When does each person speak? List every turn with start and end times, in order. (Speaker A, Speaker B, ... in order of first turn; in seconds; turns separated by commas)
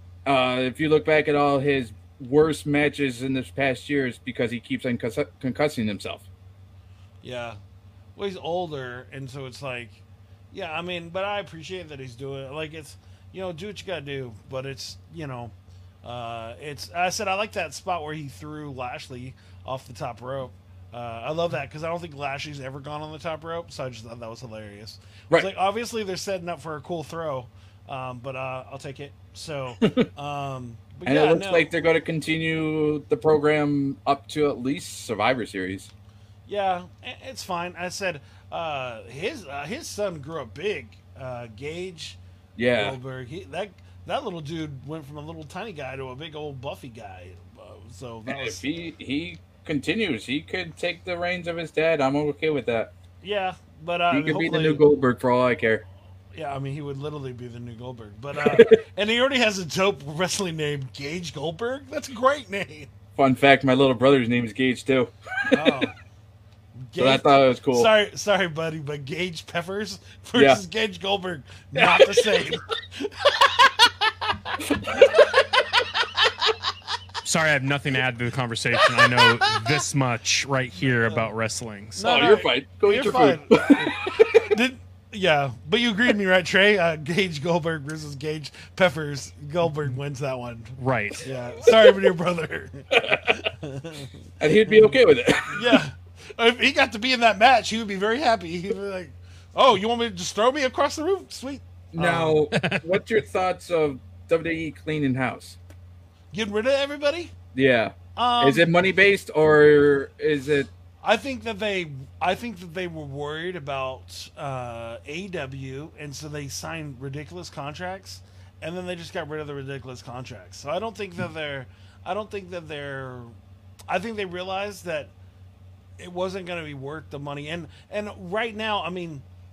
Speaker A: 0.2-6.2, Speaker B: 7.2-7.6, Speaker B: 8.2-10.0, Speaker B: 10.5-31.7, Speaker A: 29.8-30.1, Speaker A: 31.1-35.9, Speaker B: 36.5-42.2, Speaker A: 42.5-43.0, Speaker B: 42.7-48.6, Speaker A: 48.3-52.9, Speaker B: 53.2-54.8, Speaker A: 54.1-55.8, Speaker B: 56.3-62.9, Speaker A: 58.4-58.7, Speaker A: 63.2-65.9, Speaker B: 65.5-65.9, Speaker B: 66.8-74.1, Speaker A: 67.0-67.9, Speaker A: 70.3-70.6, Speaker A: 71.7-72.5, Speaker A: 74.6-75.1, Speaker C: 77.2-82.0, Speaker B: 80.8-81.3, Speaker B: 82.0-94.1, Speaker A: 82.0-84.5, Speaker C: 90.8-91.2, Speaker A: 91.7-92.1, Speaker A: 92.9-93.4, Speaker A: 94.4-95.8, Speaker B: 94.7-94.9, Speaker B: 95.5-102.4, Speaker A: 101.9-105.6, Speaker C: 102.5-103.0, Speaker B: 106.3-107.3, Speaker A: 107.5-110.7, Speaker B: 108.1-108.7, Speaker B: 111.0-123.3, Speaker B: 123.9-125.1, Speaker B: 126.0-129.2